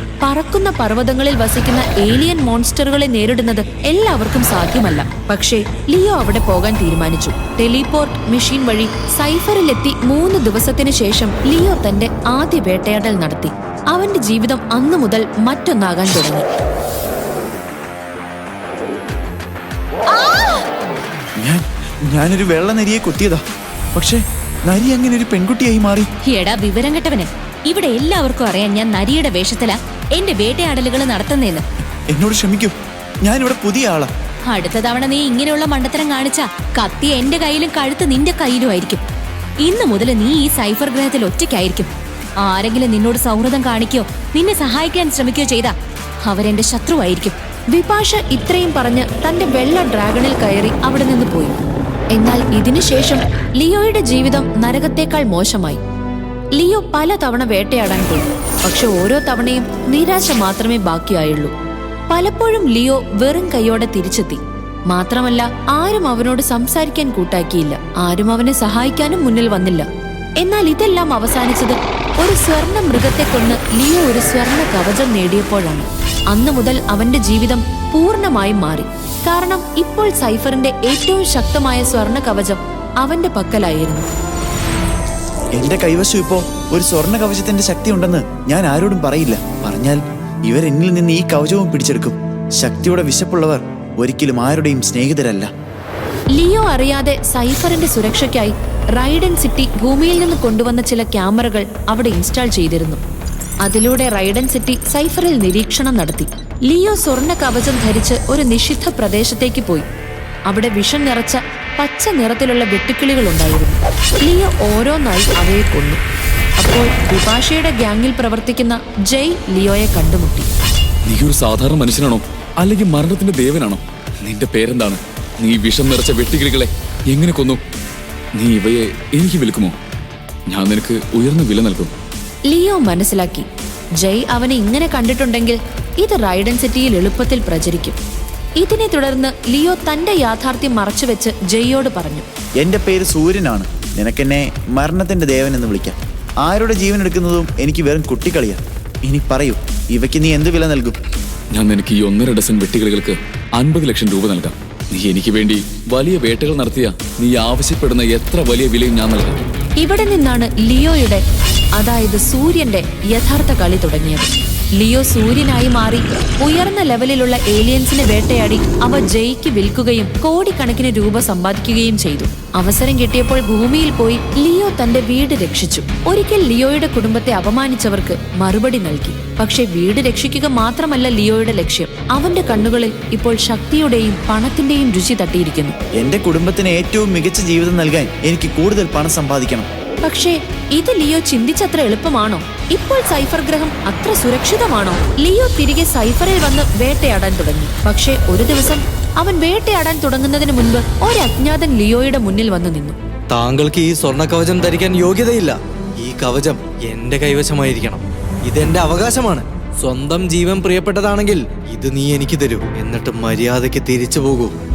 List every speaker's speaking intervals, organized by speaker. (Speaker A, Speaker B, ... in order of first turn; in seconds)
Speaker A: 0.2-16.4, 47.7-51.5, 52.1-55.8, 56.5-61.5, 62.1-64.4, 64.9-69.8, 70.4-84.1, 96.3-103.0, 103.6-109.9, 110.5-116.0, 116.6-120.5, 132.5-133.4, 134.0-138.0, 138.6-142.2, 159.8-161.2, 161.8-185.7, 190.0-202.9
Speaker B: 21.4-23.4, 23.9-26.1, 32.1-34.1, 85.6-95.5, 142.6-150.9, 185.9-189.7
Speaker C: 26.3-31.6, 34.5-39.0, 39.6-41.9, 42.4-45.7, 46.2-47.3
Speaker D: 121.0-127.6, 128.3-129.7, 130.5-131.9, 151.5-159.4
Speaker E: 203.3-214.5